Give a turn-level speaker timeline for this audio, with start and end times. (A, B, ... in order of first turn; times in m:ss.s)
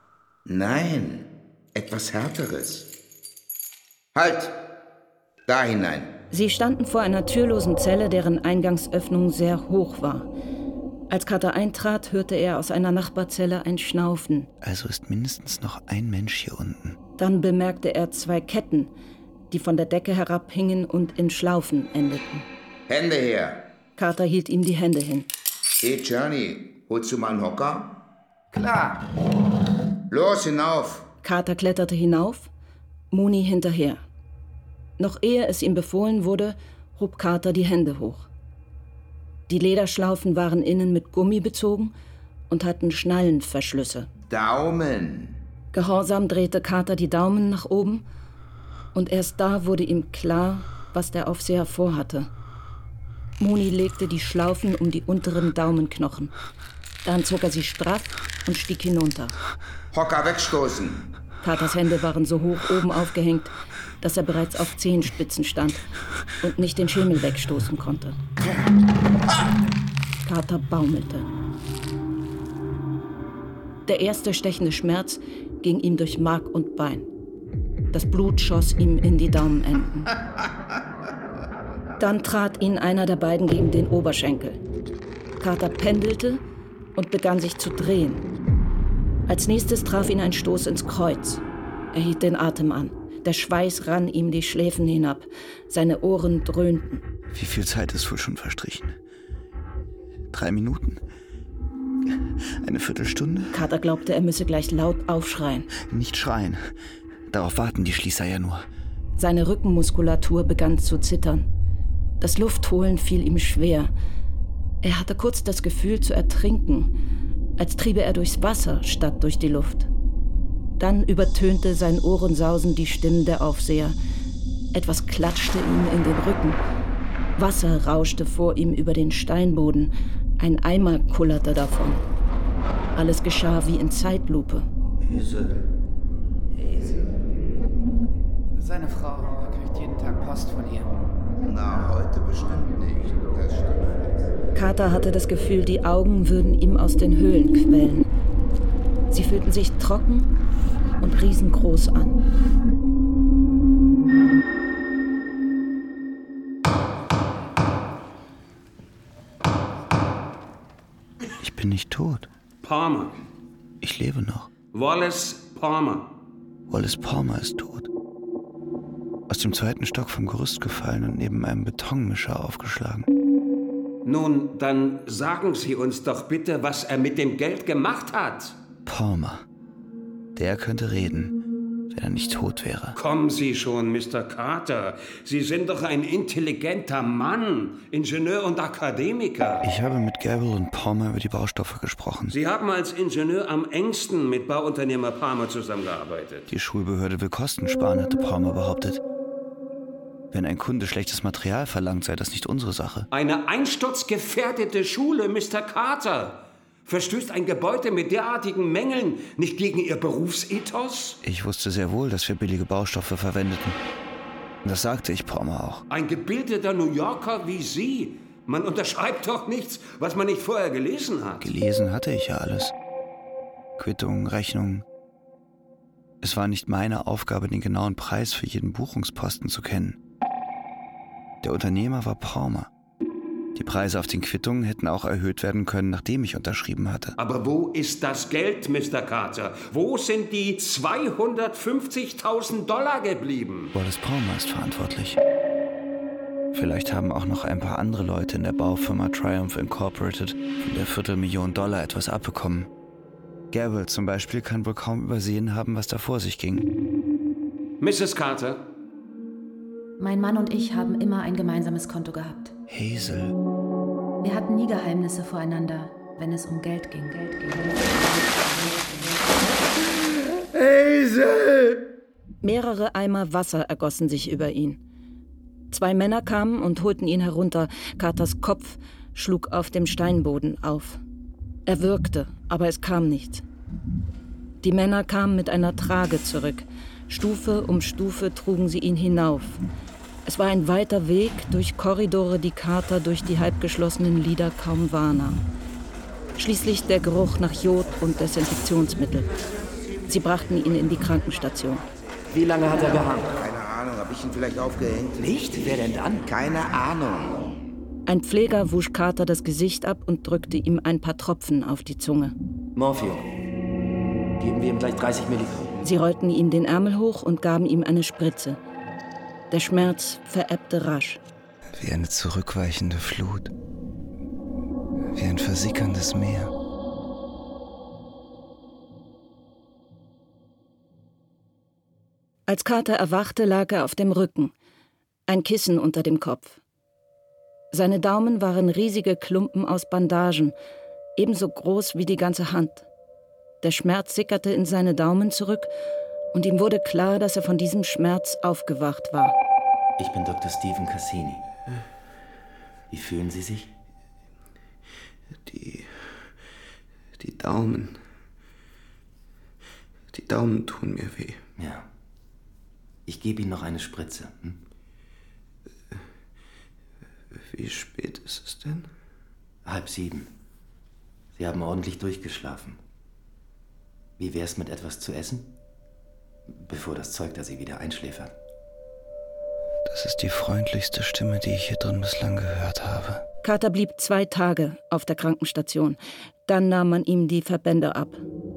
0:00.4-0:02.9 A
0:04.1-0:04.5 A
0:05.5-0:06.1 A
0:06.3-0:10.3 B
0:11.1-0:14.5 B
0:14.6-0:17.0 C
0:17.2-0:18.9 B
0:19.5-0:22.4 B
0:22.9-0:23.7 A
0:24.0-0:25.3 B
0:25.8-0:28.0 A
0:28.5-0:29.2 A
0:30.1-0:31.1 A
0:31.2-0:32.5 B
0:33.1-0:34.0 B
0:35.0-0:38.3 B
0:39.5-0:41.9 B
0:42.5-0:44.1 B
0:44.3-0:45.4 A
0:45.7-0:48.0 B
0:48.9-0:52.3 B
0:53.4-0:56.3 B
0:57.0-0:59.4 B
0:59.9-1:01.1 A
1:01.4-1:05.8 B
1:06.4-1:08.2 B
1:10.2-1:11.3 B
1:13.8-1:17.0 B
1:17.9-1:20.1 B
1:22.0-1:24.6 B
1:25.4-1:26.4 B
1:27.0-1:28.2 B
1:29.3-1:31.4 B
1:31.9-1:37.0 B
1:37.3-1:39.0 C
1:40.3-1:41.0 C
1:42.4-1:43.6 C
1:43.5-1:45.7 B
1:45.8-1:46.7 C
1:47.3-1:48.6 C
1:49.2-1:51.5 B
1:52.2-1:53.9 B
1:54.8-1:56.9 B
1:57.6-1:59.9 B
2:00.8-2:04.0 B
2:04.7-2:06.6 B
2:07.4-2:12.0 B
2:12.9-2:14.7 B
2:15.0-2:15.6 A
2:16.6-2:17.0 A
2:18.5-2:20.9 D
2:21.4-2:24.3 A
2:24.5-2:28.1 B
2:29.1-2:30.3 B
2:31.0-2:32.2 B
2:41.4-2:42.3 C
2:42.6-2:43.1 E
2:43.8-2:44.5 C
2:44.7-2:46.1 E
2:46.7-2:47.9 C
2:49.3-2:53.1 C
2:54.0-2:58.6 E
2:58.8-2:59.4 C
3:00.4-3:01.4 C
3:01.9-3:03.0 C
3:03.0-3:09.6 E
3:09.6-3:12.4 C
3:12.3-3:16.4 E
3:16.5-3:19.0 C
3:20.3-3:23.1 C
3:23.1-3:31.2 E
3:31.2-3:33.8 C
3:34.6-3:35.8 C
3:35.9-3:41.4 E
3:41.4-3:42.7 C
3:43.8-3:44.8 C
3:46.2-3:50.0 C
3:51.4-3:52.7 C
3:53.5-3:57.1 C
3:57.2-4:03.7 E
4:03.7-4:05.2 C
4:06.5-4:12.7 C
4:13.5-4:16.7 C
4:17.8-4:18.6 E
4:20.0-4:22.5 F
4:22.7-4:23.4 C
4:24.2-4:27.9 F
4:30.7-4:31.4 A
4:32.4-4:34.8 B
4:35.7-4:41.0 B
4:41.7-4:43.4 B
4:44.6-4:49.6 B
4:50.2-4:55.4 B
4:56.4-4:59.3 B
5:00.0-5:01.8 B
5:02.3-5:03.2 G
5:02.7-5:05.6 A
5:05.2-5:06.2 G
5:06.2-5:07.4 A
5:08.0-5:12.3 B
5:12.8-5:13.2 G
5:14.4-5:15.8 G
5:15.8-5:18.6 B
5:19.5-5:21.2 B
5:21.7-5:23.5 C
5:25.1-5:26.5 C
5:32.5-5:34.5 B
5:35.3-5:36.6 B
5:37.7-5:40.5 B
5:41.2-5:42.8 B
5:43.6-5:45.7 B
5:46.3-5:49.4 B
5:50.0-5:51.4 G
5:52.9-5:53.7 G
5:55.4-5:56.3 C
5:57.2-5:58.0 C
6:00.1-6:01.4 C
6:01.6-6:01.9 G
6:03.0-6:04.6 G
6:07.3-6:08.9 C
6:09.6-6:10.3 G
6:11.4-6:12.8 G
6:14.2-6:15.5 G
6:16.5-6:18.3 G
6:19.8-6:23.2 C
6:23.4-6:28.2 B